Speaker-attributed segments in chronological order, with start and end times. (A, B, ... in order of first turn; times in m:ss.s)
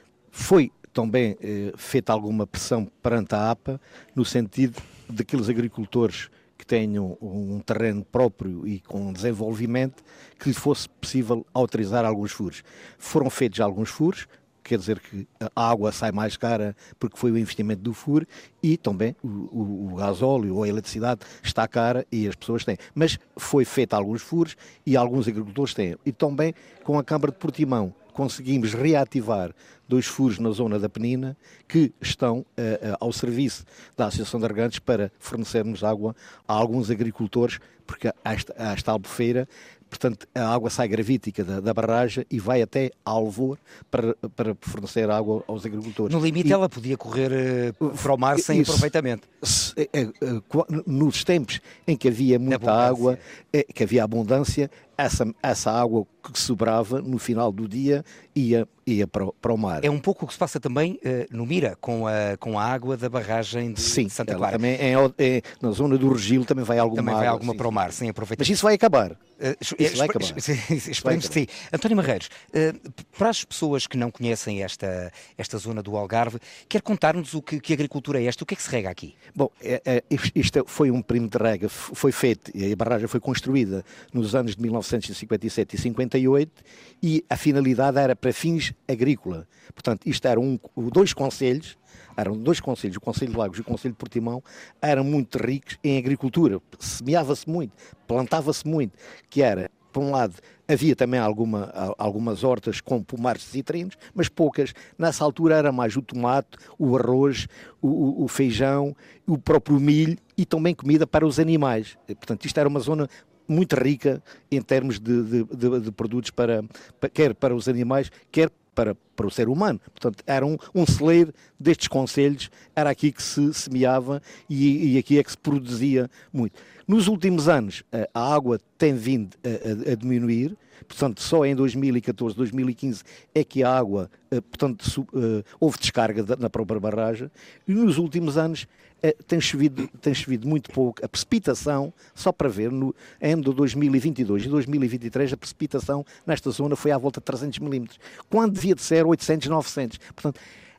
0:00.3-0:46.6 A
0:46.1-0:49.2 B
0:47.8-0:48.9 A
0:49.4-0:59.9 A
0:52.5-0:53.2 B
0:59.8-1:04.6 B
1:03.8-1:09.2 A
1:06.9-1:08.5 B
1:09.4-1:19.2 B
1:09.8-1:10.4 A
1:11.0-1:11.4 A
1:19.3-2:30.4 A